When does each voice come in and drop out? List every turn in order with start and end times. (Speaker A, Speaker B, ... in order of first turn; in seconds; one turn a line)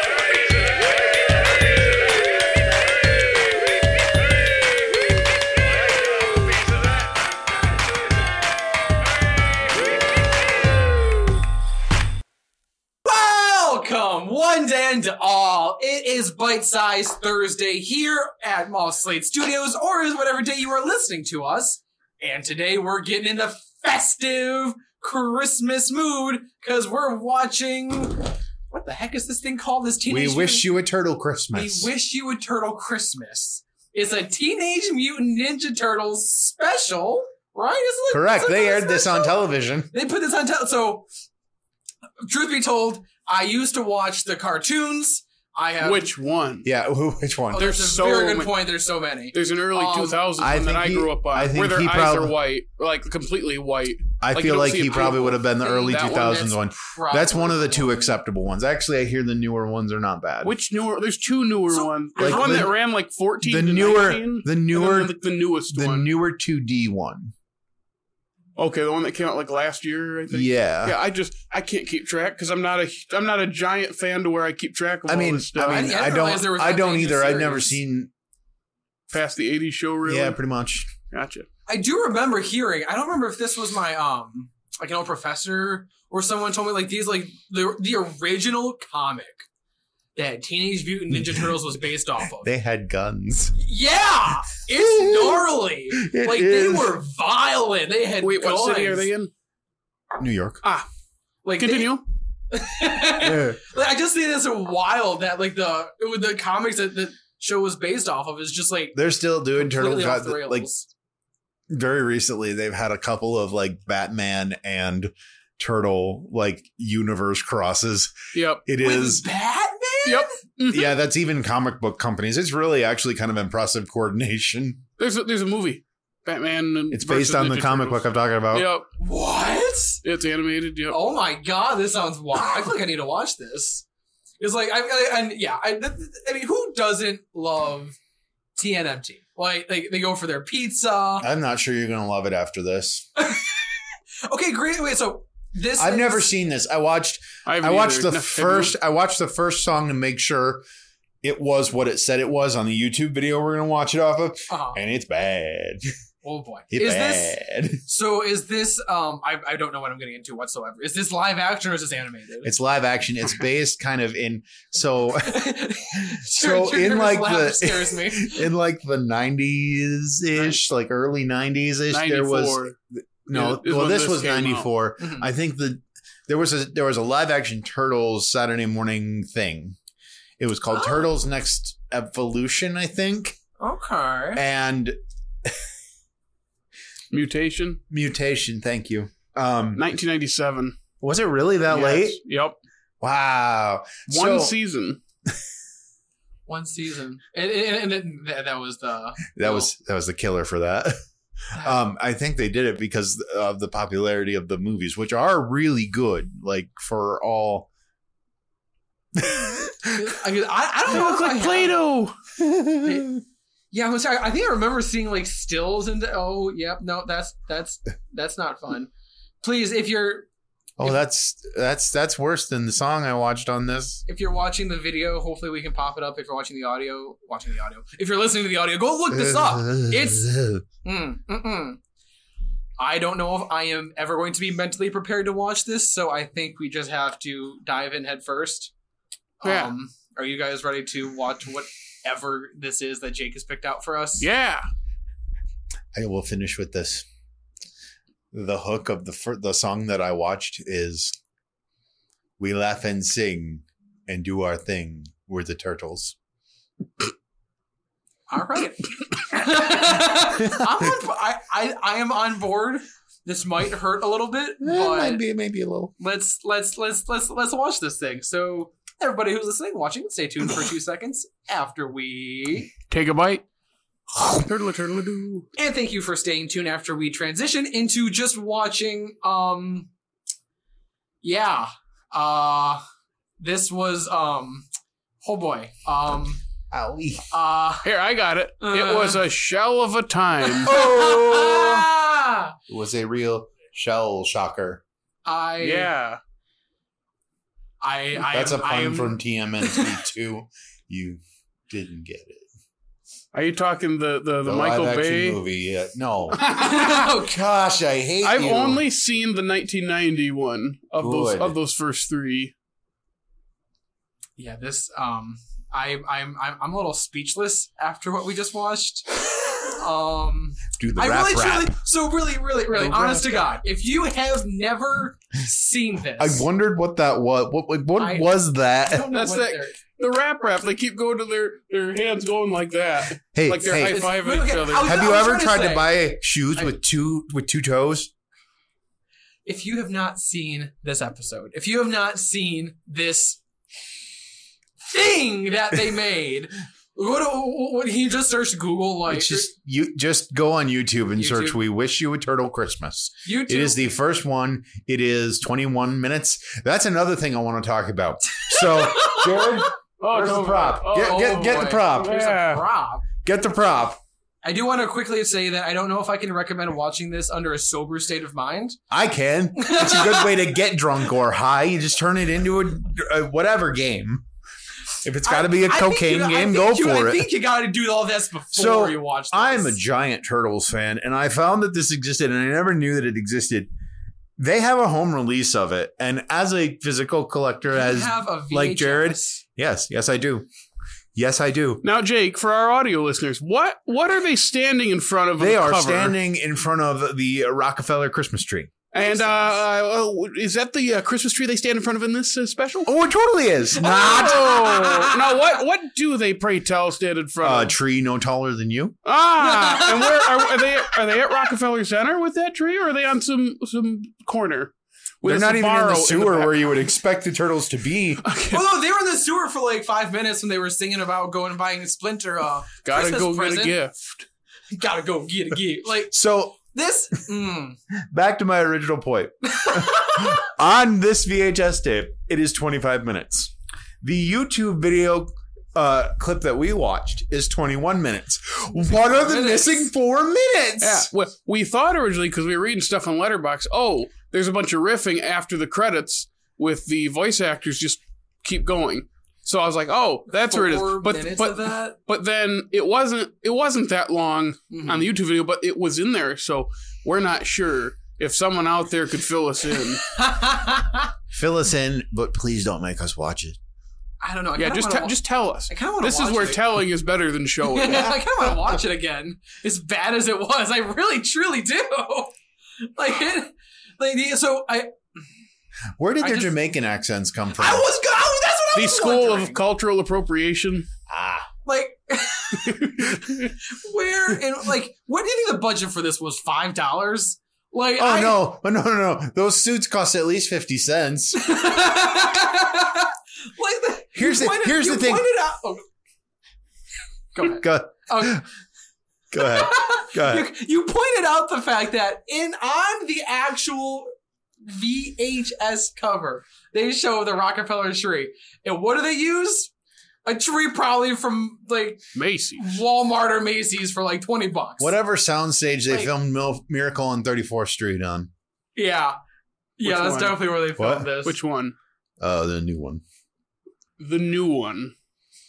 Speaker A: 13.1-30.7
Speaker B: 30.1-31.9
Speaker A: 31.5-39.4
Speaker B: 38.1-39.9
Speaker A: 39.9-41.1
Speaker A: 42.2-46.1
Speaker C: 45.8-46.7
Speaker B: 46.6-47.7
Speaker A: 47.5-50.2
Speaker C: 47.5-48.6
Speaker C: 49.3-56.4
Speaker B: 50.4-52.4
Speaker B: 54.2-60.5
Speaker A: 55.6-58.2
Speaker C: 60.4-66.1
Speaker A: 61.7-62.7
Speaker B: 62.2-62.7
Speaker B: 63.4-65.2
Speaker B: 65.7-67.3
Speaker C: 68.6-76.0
Speaker B: 70.3-71.0
Speaker B: 75.1-78.1
Speaker A: 75.7-77.8
Speaker C: 79.1-80.4
Speaker B: 80.0-80.9
Speaker C: 81.1-81.5
Speaker A: 81.7-89.5
Speaker A: 90.2-92.5
Speaker B: 92.4-93.6
Speaker A: 93.6-99.1
Speaker B: 94.8-97.0
Speaker C: 98.2-99.3
Speaker B: 100.2-100.6
Speaker A: 101.5-109.0
Speaker C: 101.6-102.0
Speaker B: 103.2-103.6
Speaker B: 109.0-110.7
Speaker A: 109.5-110.9
Speaker B: 111.7-118.1
Speaker C: 118.3-118.6
Speaker B: 118.7-119.3
Speaker A: 118.8-120.3
Speaker C: 120.0-121.0
Speaker B: 120.7-124.8
Speaker C: 125.0-128.9
Speaker B: 126.9-128.7
Speaker A: 129.0-130.0
Speaker C: 130.0-131.0
Speaker A: 130.9-133.8
Speaker A: 134.4-138.0
Speaker A: 138.6-141.3
Speaker B: 141.2-143.1
Speaker A: 143.2-146.3
Speaker B: 145.8-150.6
Speaker C: 147.5-148.8
Speaker B: 151.2-155.9
Speaker A: 154.5-154.8
Speaker A: 156.2-162.5
Speaker B: 156.7-157.8
Speaker B: 162.4-179.8
Speaker A: 165.2-168.5
Speaker C: 171.9-172.7
Speaker C: 173.3-174.7
Speaker A: 175.0-175.3
Speaker B: 180.4-183.4
Speaker A: 180.7-181.1
Speaker A: 183.6-184.4
Speaker B: 184.3-184.9
Speaker C: 187.1-187.8
Speaker B: 187.9-189.8
Speaker C: 189.8-190.8
Speaker B: 191.0-192.2
Speaker C: 191.7-192.6
Speaker B: 193.0-194.6
Speaker C: 194.1-195.0
Speaker A: 196.5-199.7
Speaker B: 199.4-201.0
Speaker B: 201.5-207.7
Speaker A: 201.6-201.8
Speaker B: 209.2-210.0
Speaker A: 209.9-211.8
Speaker C: 210.9-212.2
Speaker B: 212.4-213.2
Speaker A: 212.8-213.1
Speaker A: 213.7-218.9
Speaker A: 219.4-220.3
Speaker B: 220.8-224.0
Speaker A: 224.1-230.3
Speaker B: 229.1-230.6
Speaker A: 230.8-231.8
Speaker A: 232.8-238.7
Speaker A: 239.4-244.3
Speaker C: 239.4-239.7
Speaker C: 244.2-244.7
Speaker B: 245.9-247.1
Speaker B: 248.3-251.2
Speaker B: 252.4-256.1
Speaker A: 258.3-265.2
Speaker B: 264.6-265.9
Speaker A: 266.0-272.7
Speaker C: 272.9-273.4
Speaker C: 274.2-275.5
Speaker A: 275.6-279.9
Speaker A: 281.2-282.8
Speaker A: 283.4-284.7
Speaker A: 285.2-286.4
Speaker B: 286.7-287.3
Speaker A: 287.3-287.9
Speaker C: 287.8-290.7
Speaker A: 288.6-289.2
Speaker A: 290.6-292.6
Speaker B: 290.6-291.9
Speaker B: 292.7-294.8
Speaker A: 295.2-295.9
Speaker C: 295.6-296.2
Speaker A: 297.8-300.0
Speaker B: 298.2-302.4
Speaker C: 303.3-305.4
Speaker B: 304.4-308.8
Speaker C: 306.3-307.0
Speaker A: 306.5-307.4
Speaker C: 308.2-312.5
Speaker B: 311.0-311.6
Speaker A: 314.4-326.5
Speaker B: 320.8-321.8
Speaker C: 322.7-323.6
Speaker B: 326.2-329.1
Speaker A: 328.0-329.8
Speaker C: 329.1-335.1
Speaker B: 333.4-334.1
Speaker A: 333.6-336.0
Speaker B: 334.8-338.1
Speaker A: 339.5-343.4
Speaker A: 344.9-349.5
Speaker B: 349.1-362.1
Speaker A: 351.2-351.6
Speaker A: 353.2-353.8
Speaker A: 358.3-359.7
Speaker C: 360.0-362.6
Speaker A: 360.9-363.1
Speaker B: 363.2-364.0
Speaker A: 364.4-368.8
Speaker B: 368.9-374.2
Speaker A: 369.6-370.4
Speaker B: 375.0-377.3
Speaker A: 375.2-379.8
Speaker B: 378.5-383.7
Speaker B: 384.4-390.5
Speaker A: 387.7-389.4
Speaker B: 391.1-391.8
Speaker C: 391.8-396.2
Speaker B: 395.4-398.8
Speaker C: 398.9-402.9
Speaker A: 399.0-399.4
Speaker B: 402.9-404.7
Speaker A: 403.8-405.3
Speaker C: 403.9-407.8
Speaker B: 407.4-408.9
Speaker C: 409.1-416.8
Speaker A: 409.4-410.7
Speaker B: 415.2-418.2
Speaker C: 418.2-418.7
Speaker A: 418.5-423.8
Speaker C: 422.8-424.2
Speaker A: 424.7-426.1
Speaker B: 426.1-426.6
Speaker A: 426.7-427.8
Speaker B: 428.1-441.1
Speaker A: 429.6-430.3
Speaker A: 439.1-439.9
Speaker C: 440.8-460.0
Speaker A: 450.3-452.0
Speaker A: 454.7-455.1
Speaker A: 460.0-461.1
Speaker B: 461.3-463.6
Speaker A: 464.2-466.6
Speaker C: 464.6-468.3
Speaker A: 467.6-474.9
Speaker B: 476.0-477.9
Speaker A: 476.2-476.6
Speaker A: 477.6-479.6
Speaker C: 478.7-480.9
Speaker B: 481.1-481.5
Speaker A: 481.6-488.5
Speaker C: 482.6-483.5
Speaker B: 488.0-491.6
Speaker A: 491.4-495.8
Speaker B: 494.1-495.3
Speaker A: 497.4-498.4
Speaker B: 497.4-498.4
Speaker B: 499.3-500.5
Speaker A: 499.4-504.1
Speaker A: 504.6-509.7
Speaker A: 510.2-515.0
Speaker C: 512.1-512.8
Speaker B: 514.8-518.3
Speaker A: 518.8-519.2
Speaker A: 519.8-521.4
Speaker C: 519.8-520.6
Speaker B: 520.8-521.2
Speaker C: 521.2-521.8
Speaker B: 522.2-523.0
Speaker C: 524.0-524.9